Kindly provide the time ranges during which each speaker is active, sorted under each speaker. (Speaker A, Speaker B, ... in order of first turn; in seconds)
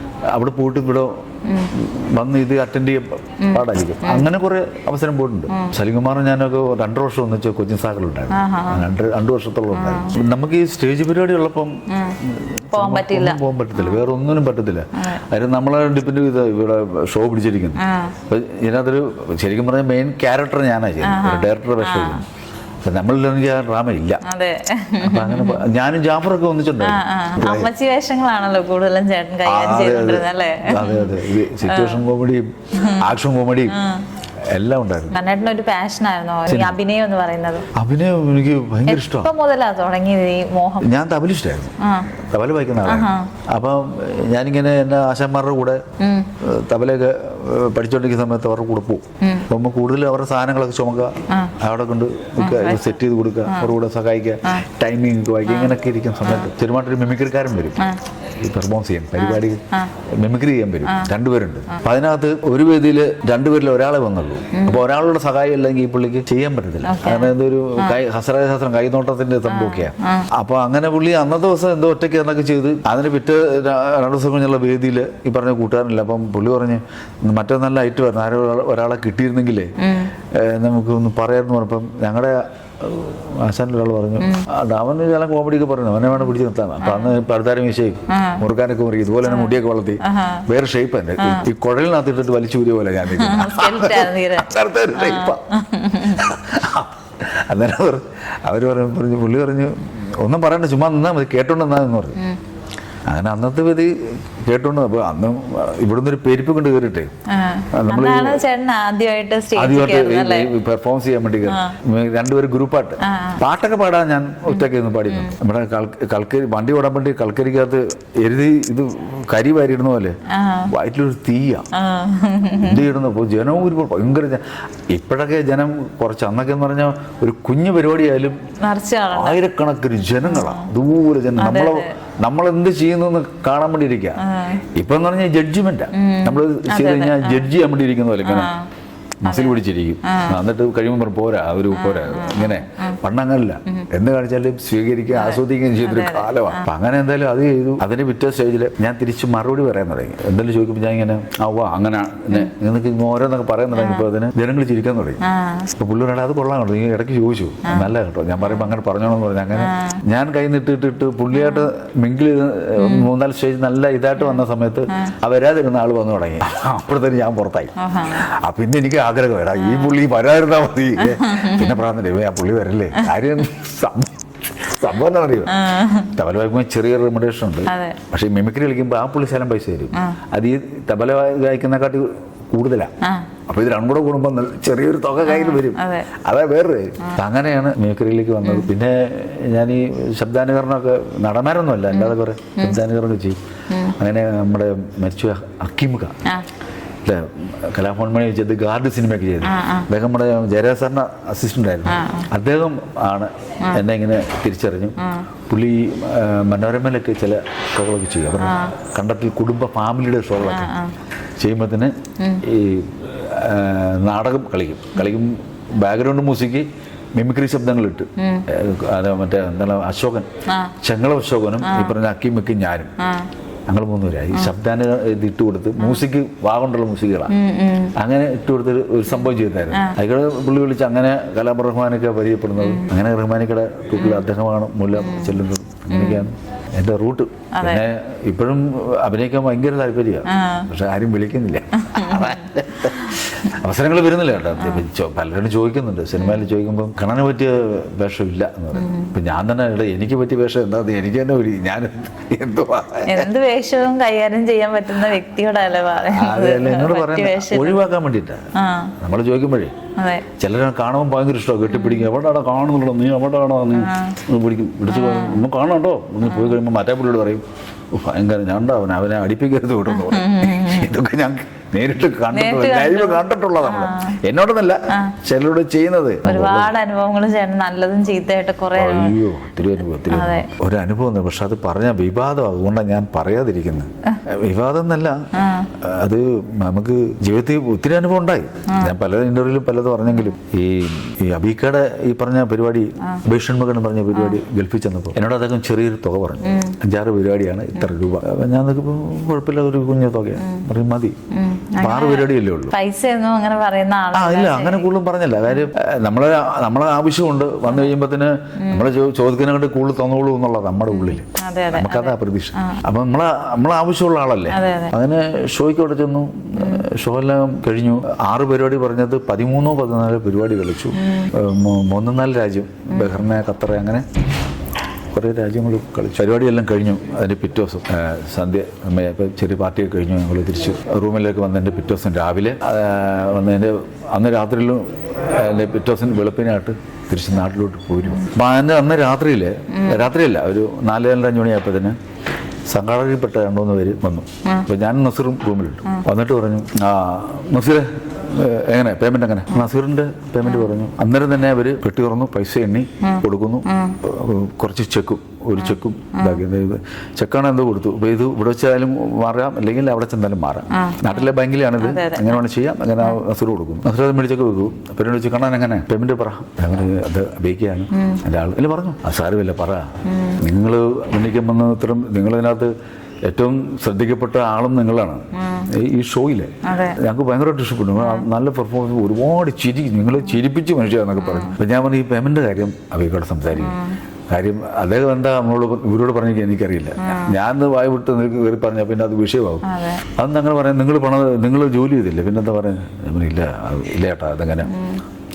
Speaker A: 0.3-22.2, 22.8-24.2, 25.0-27.7, 29.4-33.8, 34.5-35.2, 36.5-36.8, 37.8-39.3, 40.8-45.8, 46.4-79.7, 80.3-95.4, 96.0-102.2, 103.1-107.2, 107.7-108.4, 109.6-120.2, 120.7-121.7, 122.6-128.4, 129.1-138.5, 139.2-155.2, 155.7-175.6, 176.1-182.9, 183.5-193.4, 193.9-196.2, 197.0-205.0, 205.5-210.7, 211.4-220.3, 220.8-222.9, 223.7-227.3, 227.9-253.3, 256.1-258.4, 259.0-259.8, 260.4-276.7, 278.8-301.2, 301.8-302.8, 304.1-324.1, 325.1-342.0, 342.7-372.7, 373.2-383.8, 384.3-394.7
Speaker B: 1.4-1.7, 3.4-4.3, 8.3-8.8, 9.7-10.2, 11.9-12.2, 12.7-14.0, 17.8-18.2, 21.0-22.2, 24.2-25.6, 26.8-32.0, 32.7-33.1, 33.7-34.1, 35.1-37.7, 38.9-40.9, 41.8-42.1, 42.9-43.3, 46.0-46.3, 49.2-49.5, 51.3-51.5, 52.4-53.7, 55.5-55.8, 59.2-59.9, 60.9-61.1, 64.5-64.8, 66.8-68.0, 69.5-70.3, 79.8-80.1, 84.2-84.5, 86.8-87.1, 88.1-88.4, 89.3-90.5, 91.2-91.5, 93.1-96.3, 107.3-110.5, 111.5-111.8, 113.0-113.4, 114.5-115.4, 120.3-120.7, 121.7-122.8, 128.6-129.4, 130.2-130.7, 131.4-131.9, 134.2-134.6, 135.9-137.5, 138.2-138.7, 139.3-140.4, 141.7-143.0, 145.1-146.7, 153.7-154.1, 155.2-155.7, 158.4-158.7, 159.6-160.0, 161.3-161.7, 162.8-163.1, 164.2-165.1, 167.8-168.3, 169.6-170.0, 171.0-171.8, 175.5-176.1, 177.7-178.0, 179.9-180.2, 183.0-183.3, 185.2-186.1, 191.9-192.8, 193.7-193.9, 199.4-199.9, 201.9-202.3, 205.0-205.3, 208.4-208.7, 210.4-210.9, 218.2-218.5, 220.5-220.7, 221.6-221.9, 223.0-223.3, 225.8-226.1, 227.3-227.9, 229.7-230.0, 232.6-232.9, 235.0-236.3, 237.6-237.8, 240.3-240.7, 241.9-242.4, 244.6-244.8, 246.2-246.5, 248.8-249.1, 253.1-257.8, 258.5-259.0, 260.0-260.3, 261.7-262.1, 263.7-264.2, 264.9-265.4, 266.2-266.6, 269.9-270.9, 272.3-274.2, 274.9-275.1, 276.2-279.2, 280.1-280.5, 285.3-285.7, 288.7-288.9, 296.4-296.8, 300.4-300.7, 301.3-304.9, 308.6-308.9, 310.9-312.8, 314.5-314.9, 316.6-316.9, 321.0-321.3, 339.7-340.1, 350.4-350.7, 353.0-354.0, 355.6-356.4, 360.7-361.3, 361.8-362.4, 367.9-368.2, 370.1-370.4, 375.3-375.7, 376.6-377.0, 378.0-378.3, 381.2-381.6, 383.6-384.0, 387.0-387.3, 389.6-390.0, 394.7-395.0